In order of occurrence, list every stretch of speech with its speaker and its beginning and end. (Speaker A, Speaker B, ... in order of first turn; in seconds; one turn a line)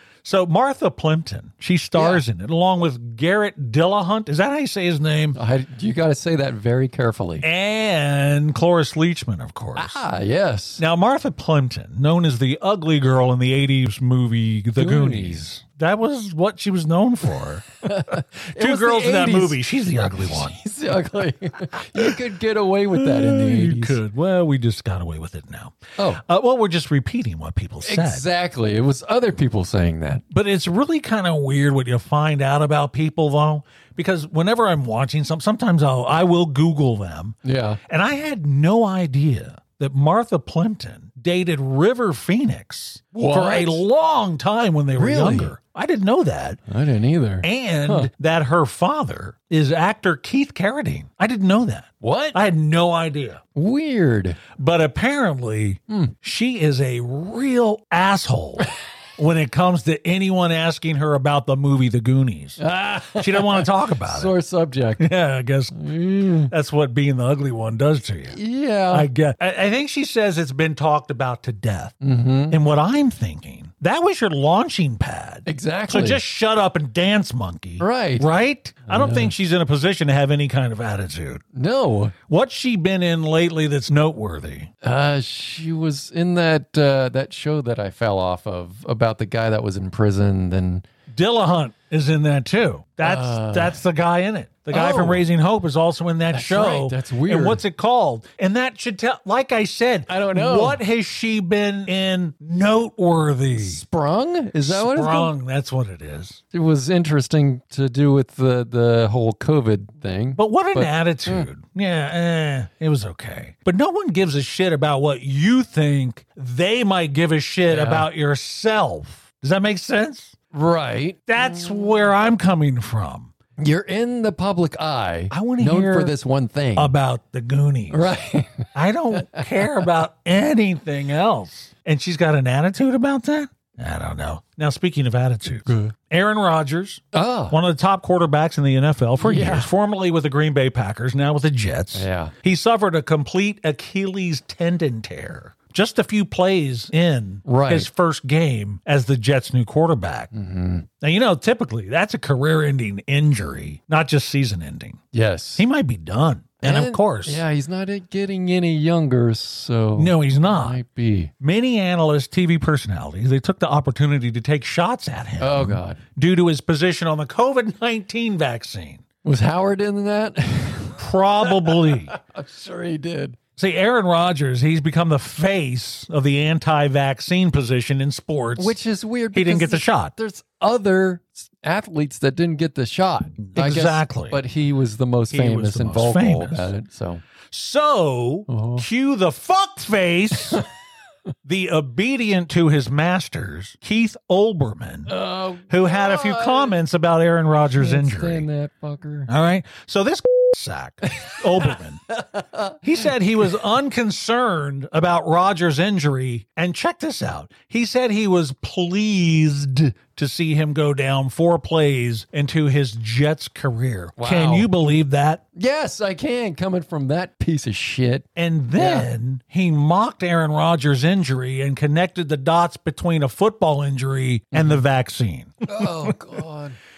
Speaker A: 0.2-5.4
Speaker B: 2.0-2.2
Speaker B: 5.3-7.5
Speaker A: 7.4-10.0
Speaker B: 9.8-10.8
Speaker A: 10.8-20.6
Speaker B: 14.8-15.5
Speaker B: 17.8-24.0
Speaker A: 22.9-28.3
Speaker B: 27.8-30.2
Speaker A: 30.3-46.6
Speaker B: 37.4-37.8
Speaker B: 43.1-43.8
Speaker B: 45.0-45.5
Speaker B: 46.7-48.1
Speaker A: 47.4-53.4
Speaker B: 52.0-52.4
Speaker B: 53.5-54.4
Speaker A: 54.6-62.6
Speaker B: 55.9-56.1
Speaker B: 62.6-65.1
Speaker A: 63.2-64.3
Speaker A: 65.0-65.9
Speaker B: 65.7-66.5
Speaker A: 66.4-68.4
Speaker B: 68.3-69.1
Speaker A: 68.9-72.0
Speaker B: 72.0-72.6
Speaker A: 72.5-81.4
Speaker B: 75.5-76.2
Speaker B: 77.8-78.3
Speaker B: 78.9-79.3
Speaker B: 81.5-82.2
Speaker A: 82.3-84.7
Speaker B: 84.8-90.8
Speaker A: 91.1-103.8
Speaker B: 93.0-93.8
Speaker B: 94.7-95.3
Speaker B: 96.3-97.6
Speaker B: 100.1-100.8
Speaker B: 103.5-105.3
Speaker A: 104.5-106.4
Speaker B: 106.5-111.5
Speaker A: 110.3-120.3
Speaker B: 117.7-118.1
Speaker B: 120.5-121.7
Speaker A: 121.3-123.3
Speaker B: 123.6-127.0
Speaker A: 125.3-126.1
Speaker A: 126.8-128.2
Speaker B: 127.9-129.5
Speaker A: 128.7-150.3
Speaker B: 135.7-135.9
Speaker B: 137.1-137.6
Speaker B: 139.2-139.7
Speaker B: 141.9-142.3
Speaker B: 147.5-147.9
Speaker B: 150.3-150.9
Speaker A: 151.0-155.0
Speaker B: 155.1-155.6
Speaker A: 155.6-157.4
Speaker B: 156.6-161.3
Speaker A: 159.9-160.8
Speaker A: 161.4-169.0
Speaker B: 165.4-166.0
Speaker B: 169.2-173.4
Speaker A: 171.0-172.1
Speaker A: 173.6-178.8
Speaker B: 178.6-187.2
Speaker A: 179.3-180.1
Speaker A: 183.4-184.4
Speaker A: 185.3-186.7
Speaker A: 187.5-190.6
Speaker B: 188.5-188.9
Speaker A: 191.4-195.1
Speaker B: 195.1-196.8
Speaker A: 195.7-198.5
Speaker B: 197.8-199.3
Speaker A: 199.3-202.0
Speaker B: 202.2-202.8
Speaker A: 202.8-215.4
Speaker B: 214.2-214.7
Speaker B: 215.6-219.1
Speaker A: 218.4-226.2
Speaker B: 224.5-224.8
Speaker B: 225.6-226.8